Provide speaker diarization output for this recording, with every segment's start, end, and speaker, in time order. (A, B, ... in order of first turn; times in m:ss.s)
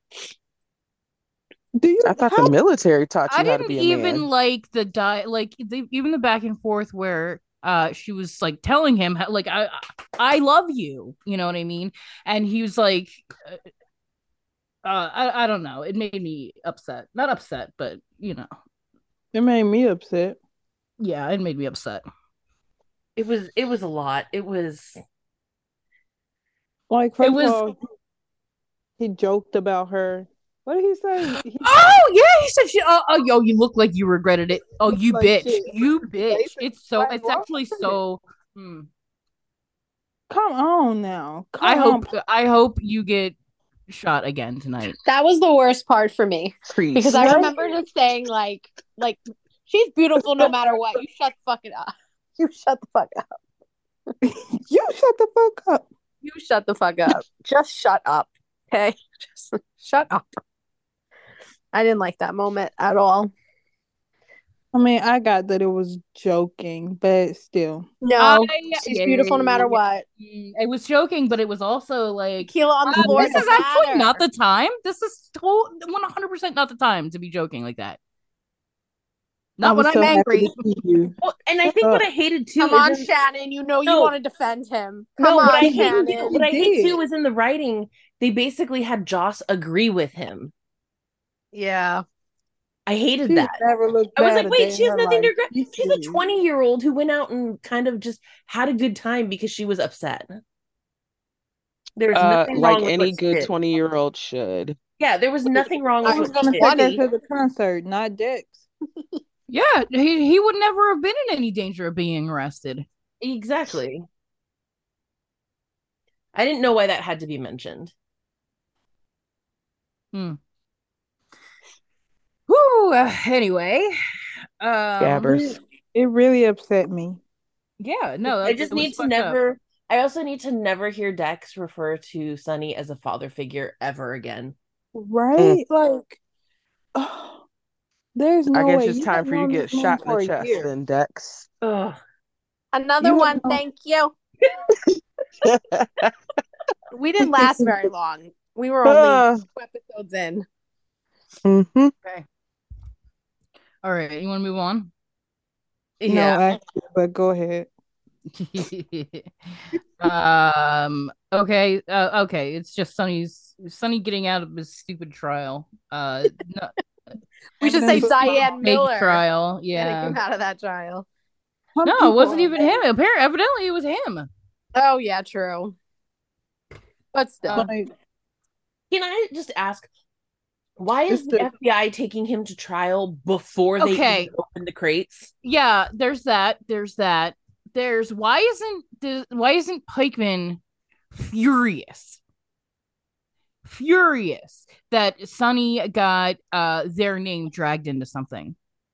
0:01.8-0:02.5 A
0:02.0-0:04.3 B
0:03.3-0:13.6 C
0:14.8-0:18.5 C
0:19.3-0:20.4 A
0:21.0-0:22.0 C
0:23.2-0:25.0 D
0:26.9-0:27.8 A
0:27.2-0:27.6 C
0:29.0-0:31.8 A
0:31.2-0:38.9 C
0:34.9-0:38.0 A
0:40.3-0:42.1 A
0:41.6-0:43.4 C
0:43.9-0:45.0 C
0:45.0-0:53.4 E
0:46.7-0:47.3 B
0:47.1-0:47.5 A
0:54.2-0:55.9 A
0:56.2-1:00.3 E
1:01.7-1:03.3 E
1:04.7-1:07.9 A
1:08.0-1:10.0 E
1:08.2-1:18.0 C
1:12.4-1:14.2 E
1:12.9-1:13.6 A
1:19.6-1:20.6 C
1:19.6-1:22.0 A
1:21.2-1:23.1 D
1:22.6-1:26.4 E
1:23.9-1:24.1 D
1:25.2-1:30.5 D
1:25.4-1:27.0 A
1:31.5-1:32.0 E
1:32.9-1:33.6 D
1:33.3-1:36.2 A
1:34.2-1:40.4 D
1:42.0-1:43.5 D
1:42.1-1:44.8 B
1:45.0-1:47.0 D
1:45.6-1:47.0 E
1:46.0-1:48.7 A
1:49.5-1:52.9 C
1:53.2-1:54.0 D
1:56.3-1:57.9 D
2:00.1-2:00.4 C
2:02.5-2:04.0 C
2:04.6-2:05.4 C
2:05.0-2:05.6 B
2:05.3-2:07.2 A
2:07.8-2:09.4 C
2:08.4-2:14.6 D
2:15.0-2:16.2 A
2:17.0-2:17.4 A
2:18.2-2:20.7 A
2:18.5-2:21.5 B
2:21.6-2:22.0 D
2:22.7-2:24.1 E
2:23.0-2:23.6 A
2:25.4-2:26.1 B
2:26.9-2:30.4 E
2:28.8-2:29.4 B
2:31.4-2:31.9 B
2:33.8-2:34.9 C
2:36.0-2:36.4 D
2:36.1-2:37.7 A
2:38.3-2:39.3 C
2:40.0-2:46.7 C
2:47.6-2:48.5 A
2:47.6-2:49.2 E
2:47.7-2:50.2 C
2:49.8-2:51.1 E
2:51.8-2:52.8 A
2:51.8-2:54.3 C
2:54.8-2:55.8 E
2:57.1-2:57.7 E
2:57.5-2:57.9 A
2:58.9-2:59.9 D
3:00.8-3:05.3 D
3:01.1-3:01.5 A
3:03.8-3:04.3 C
3:05.4-3:10.6 C
3:11.1-3:12.2 C
3:13.6-3:18.6 C